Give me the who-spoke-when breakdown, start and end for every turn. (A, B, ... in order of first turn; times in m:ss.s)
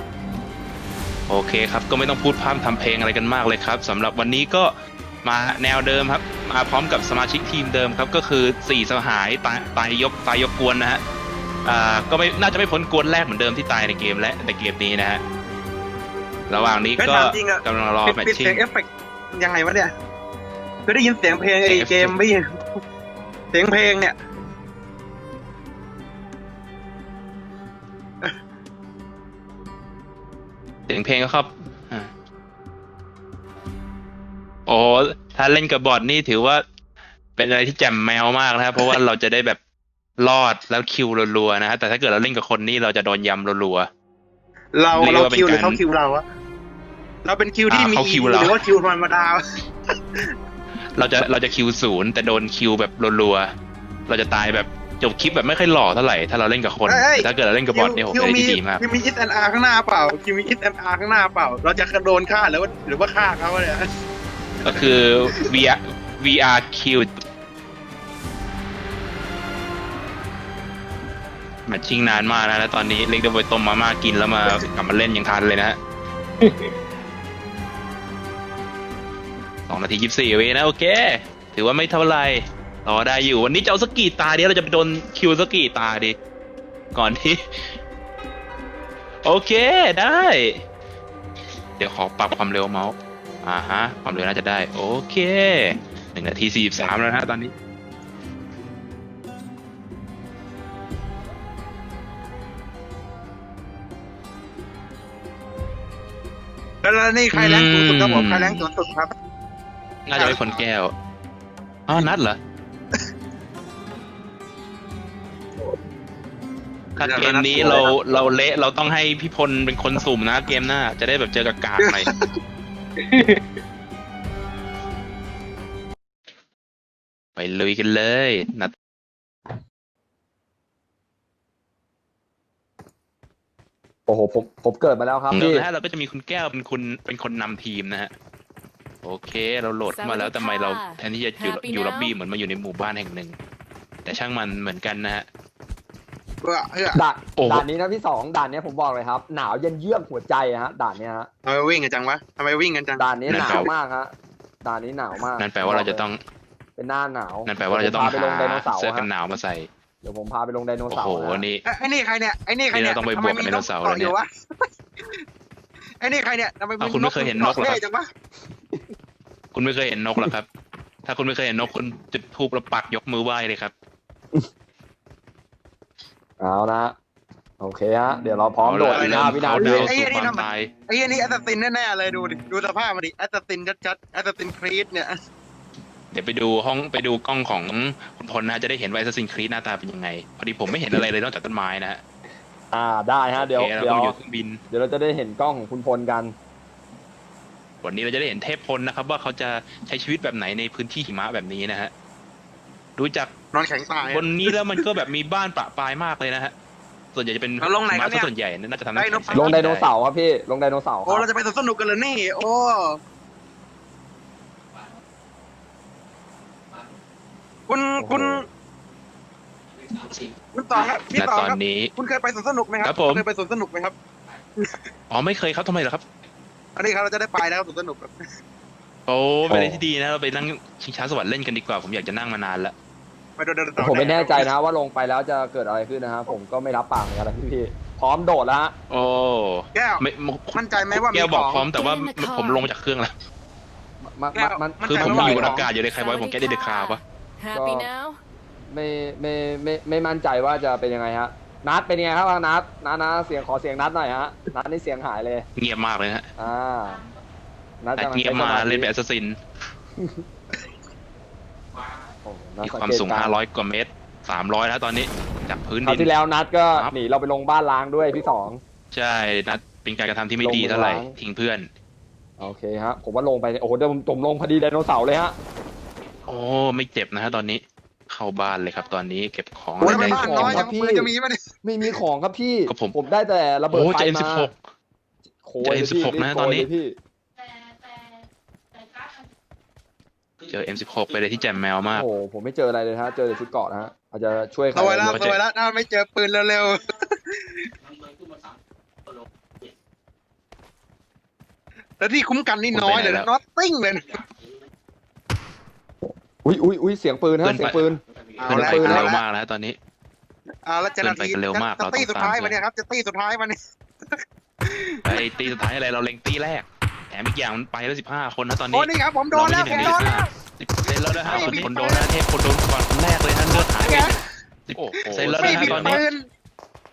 0:01.3-0:04.7 A
0:05.2-0:11.0 A
0:11.6-0:15.2 A
0:16.5-0:18.6 A
0:17.0-0:19.9 B
0:20.8-0:22.4 B
0:21.3-0:22.2 A
0:23.5-0:24.2 B
0:30.9-0:32.1 A
0:34.7-0:36.6 A
0:37.4-0:39.6 A
0:38.7-0:39.0 B
0:40.2-0:43.9 A
0:44.7-0:46.2 B
0:44.9-0:45.8 A
0:47.2-0:49.4 B
0:47.7-0:48.6 A
0:50.9-0:53.5 A
0:54.1-0:58.8 A
0:56.8-1:03.8 B
1:04.6-1:05.6 B
1:04.6-1:07.1 A
1:11.7-1:15.8 A
1:19.7-1:26.2 A
1:26.9-1:27.7 A
1:29.2-1:30.6 A
1:31.8-1:37.5 A
1:46.8-1:49.1 B
1:47.3-1:48.7 A
1:50.1-1:50.9 A
1:50.1-1:50.6 B
1:51.9-1:52.4 A
1:57.0-2:02.1 A
1:57.0-1:58.1 B
2:01.8-2:02.2 B
2:03.0-2:03.4 B
2:07.4-2:08.7 A
2:14.1-2:15.7 C
2:15.3-2:18.1 A
2:19.0-2:23.4 A
2:19.9-2:22.1 D
2:24.0-2:25.2 A
2:26.4-2:27.0 B
2:26.9-2:31.3 C
2:27.4-2:27.7 A
2:31.4-2:33.7 B
2:33.0-2:34.1 C
2:33.2-2:33.7 A
2:34.6-2:36.1 C
2:35.4-2:36.2 A
2:36.8-2:39.1 C
2:37.4-2:39.7 A
2:40.0-2:41.5 C
2:40.9-2:41.6 A
2:41.6-2:45.2 B
2:42.7-2:44.1 A
2:46.0-2:48.1 B
2:46.8-2:47.8 A
2:49.5-2:50.5 A
2:51.0-2:53.7 A
2:56.4-2:56.9 C
2:57.6-2:59.9 C
2:58.6-3:00.7 A
2:58.9-3:05.1 B
3:06.1-3:12.0 A
3:12.7-3:14.2 C
3:13.3-3:14.6 A
3:14.7-3:16.3 C
3:17.8-3:21.9 A
3:23.0-3:23.3 A
3:23.5-3:24.9 B
3:24.0-3:26.5 A
3:27.1-3:29.9 A
3:27.6-3:28.3 B
3:28.9-3:29.6 B
3:29.3-3:31.3 C
3:31.0-3:33.0 B
3:37.7-3:38.4 B
3:38.0-3:38.4 C
3:40.5-3:43.9 B
3:41.1-3:41.9 A
3:42.8-3:43.2 A
3:45.1-3:46.0 A
3:46.8-3:48.1 B
3:49.1-3:52.7 A
3:49.5-3:49.8 C
3:53.4-3:54.5 B
3:53.8-3:58.7 C
3:58.9-4:03.1 A
3:59.7-4:01.7 B
4:01.7-4:02.7 D
4:04.0-4:05.6 C
4:04.3-4:05.7 B
4:04.8-4:07.0 A
4:05.7-4:08.2 D
4:07.5-4:07.9 C
4:08.7-4:15.4 C
4:15.6-4:16.3 A
4:16.4-4:17.0 C
4:17.8-4:18.9 C
4:18.0-4:19.4 A
4:20.0-4:20.2 C
4:22.2-4:23.4 C
4:22.6-4:26.1 A
4:25.8-4:28.6 C
4:28.9-4:31.7 A
4:30.4-4:31.1 C
4:32.4-4:35.4 C
4:36.2-4:40.6 A
4:39.8-4:41.4 B
4:39.8-4:41.1 C
4:41.6-4:44.5 C
4:42.7-4:43.0 A
4:43.7-4:44.6 A
4:45.4-4:47.0 C
4:45.6-4:46.7 A
4:50.4-4:52.0 A
4:51.9-4:55.2 C
4:54.7-4:57.7 B
4:55.0-4:55.4 A
5:02.0-5:04.2 B
5:02.7-5:03.3 A
5:06.0-5:09.1 C
5:07.4-5:07.9 A
5:08.4-5:09.2 B
5:08.4-5:09.8 A
5:10.6-5:13.6 B
5:11.0-5:12.6 A
5:14.1-5:15.6 B
5:15.0-5:26.1 A
5:18.7-5:20.3 B
5:21.2-5:22.1 B
5:21.3-5:21.6 C
5:23.5-5:24.2 B
5:25.0-5:26.2 B
5:25.2-5:26.0 C